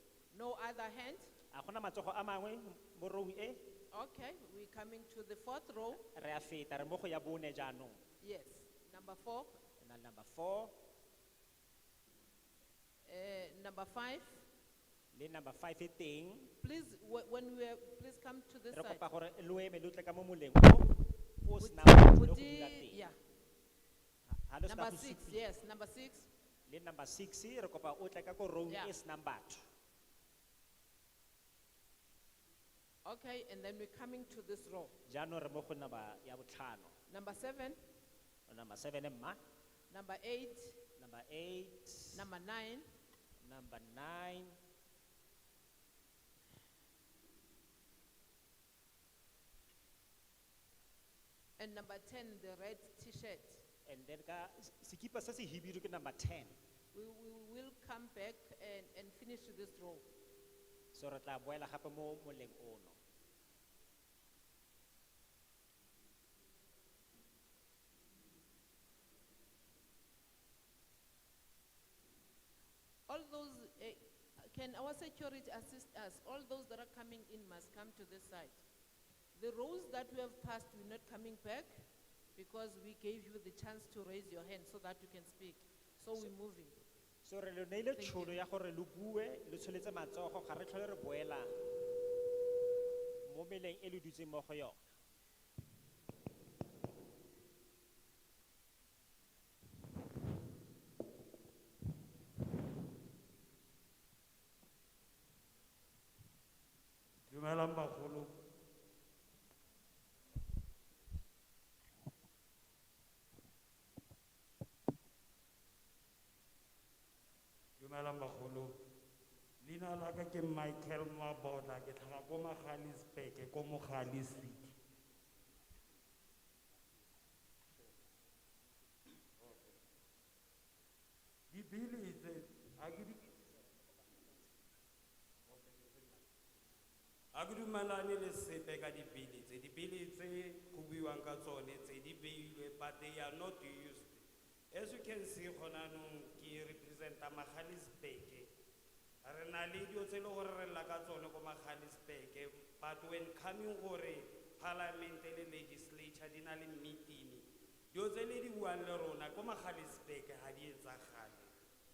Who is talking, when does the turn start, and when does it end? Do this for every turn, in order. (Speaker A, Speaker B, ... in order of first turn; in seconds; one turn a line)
Speaker A: 0.3-1.3
Speaker B: 1.5-3.6
Speaker A: 3.9-6.0
Speaker B: 6.0-8.0
Speaker A: 8.2-9.6
Speaker B: 9.8-10.8
Speaker A: 13.1-14.5
Speaker B: 15.1-16.5
Speaker A: 16.6-19.0
Speaker B: 18.7-23.0
Speaker A: 21.6-23.2
Speaker B: 24.3-25.4
Speaker A: 24.6-26.3
Speaker B: 26.7-29.6
Speaker A: 28.7-28.9
Speaker A: 33.0-35.0
Speaker B: 35.1-37.0
Speaker A: 37.1-37.8
Speaker B: 38.5-39.4
Speaker A: 39.9-40.8
Speaker B: 41.0-42.3
Speaker A: 42.1-42.9
Speaker B: 43.4-44.6
Speaker A: 51.6-53.6
Speaker B: 53.9-56.6
Speaker A: 56.9-60.1
Speaker B: 60.9-63.0
Speaker A: 73.1-78.6
Speaker A: 79.3-81.8
Speaker A: 82.4-86.8
Speaker B: 87.2-91.5
Speaker A: 88.0-88.4
Speaker B: 93.2-94.8
Speaker C: 107.3-108.4
Speaker C: 117.8-118.8
Speaker C: 119.6-124.7
Speaker C: 131.5-133.4
Speaker C: 135.6-136.0
Speaker C: 137.3-148.5
Speaker C: 149.2-161.5